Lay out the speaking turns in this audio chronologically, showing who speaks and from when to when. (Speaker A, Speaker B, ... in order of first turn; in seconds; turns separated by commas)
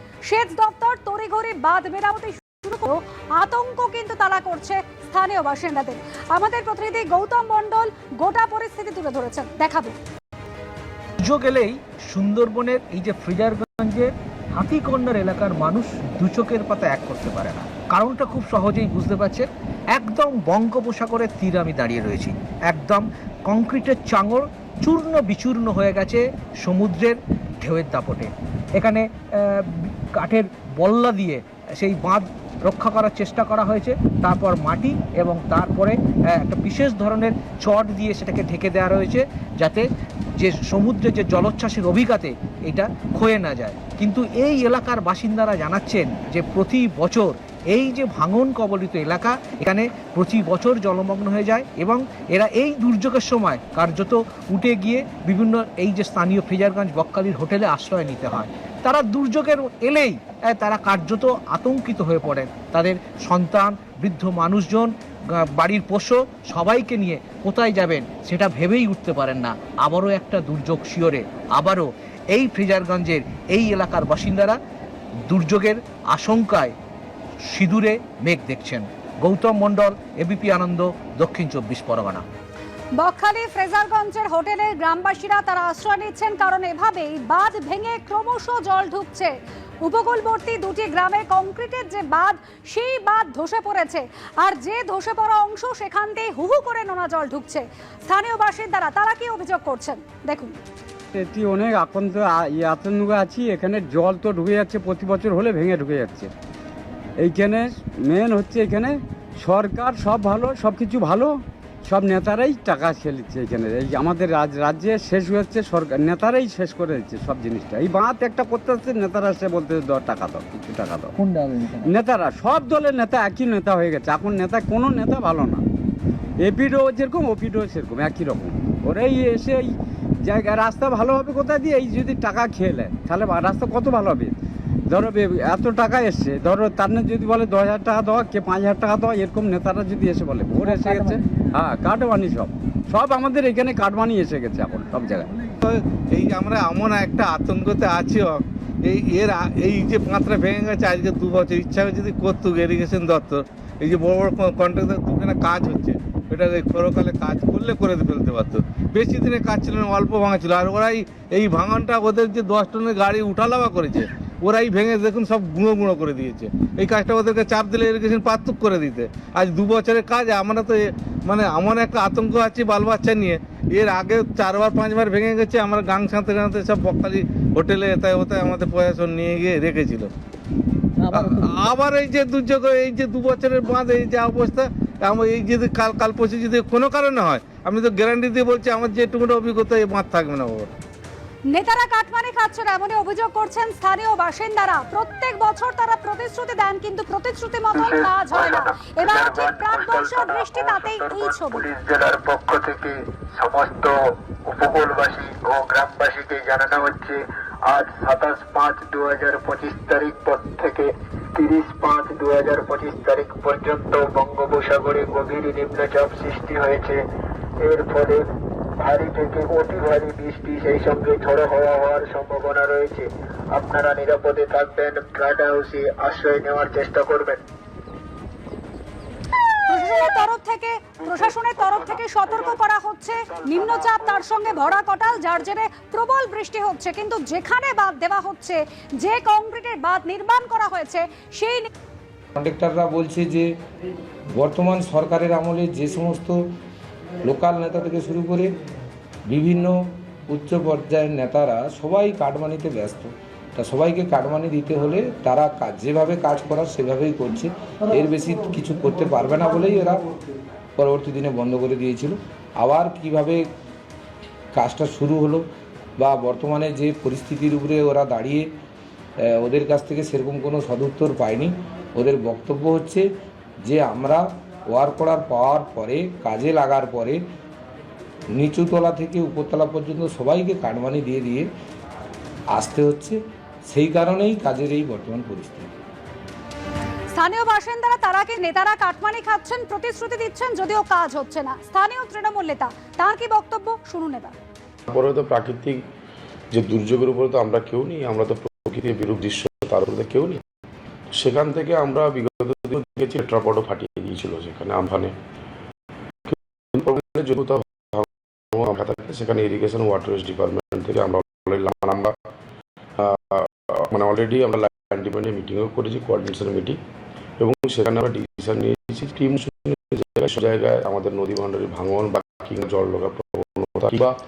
Speaker A: 0.3-10.0, Speaker B: 11.2-39.9, Speaker B: 40.4-74.6, Speaker B: 75.3-76.7, Speaker B: 77.5-82.2, Speaker A: 83.0-89.3, Speaker A: 89.8-100.5, Speaker C: 101.1-106.3, Speaker C: 107.2-121.2, Speaker B: 121.2-122.0, Speaker C: 121.8-125.7, Speaker C: 126.4-134.4, Speaker C: 134.9-145.3, Speaker B: 140.7-140.9, Speaker D: 145.6-180.1, Speaker D: 181.1-190.7, Speaker B: 181.1-181.5, Speaker A: 191.5-201.6, Speaker E: 197.7-217.0, Speaker E: 217.6-218.3, Speaker E: 218.8-227.4, Speaker A: 229.7-241.7, Speaker E: 231.1-232.4, Speaker E: 233.3-234.4, Speaker F: 242.4-243.5, Speaker F: 244.4-246.4, Speaker F: 247.2-248.6, Speaker F: 249.3-249.8, Speaker F: 250.3-260.1, Speaker F: 260.8-263.4, Speaker F: 264.6-265.4, Speaker F: 266.0-268.5, Speaker F: 269.3-273.1, Speaker F: 273.6-277.2, Speaker F: 278.4-281.5, Speaker F: 282.5-283.2, Speaker F: 283.7-285.7, Speaker A: 287.1-294.4, Speaker G: 294.9-295.8, Speaker G: 296.5-300.4, Speaker G: 301.2-305.1, Speaker G: 306.3-312.1, Speaker G: 313.0-316.8, Speaker G: 317.4-324.1